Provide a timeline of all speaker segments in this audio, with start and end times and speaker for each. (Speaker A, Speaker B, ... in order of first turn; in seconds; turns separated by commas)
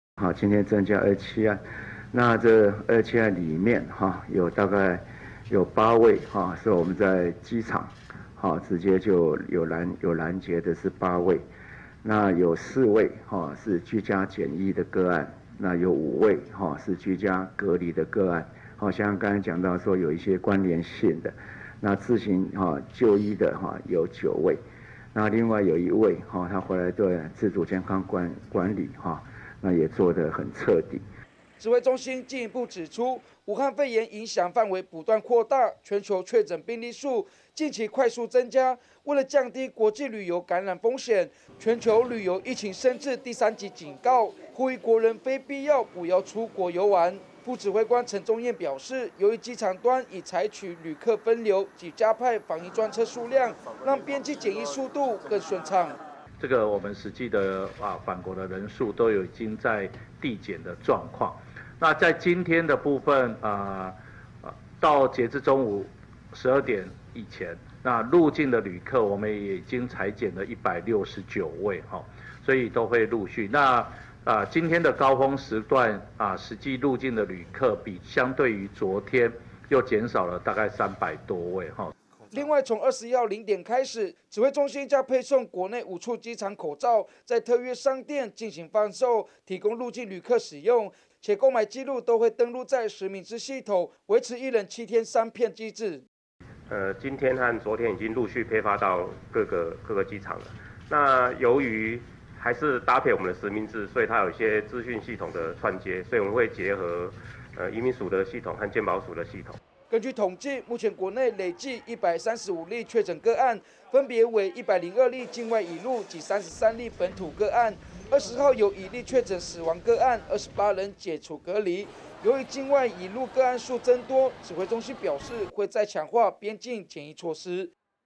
Speaker A: 0.2-1.6, Speaker A: 2.1-11.4, Speaker A: 12.0-24.6, Speaker A: 25.1-31.0, Speaker B: 31.6-56.0, Speaker C: 56.4-81.9, Speaker B: 82.3-96.0, Speaker D: 96.7-109.6, Speaker B: 109.9-127.7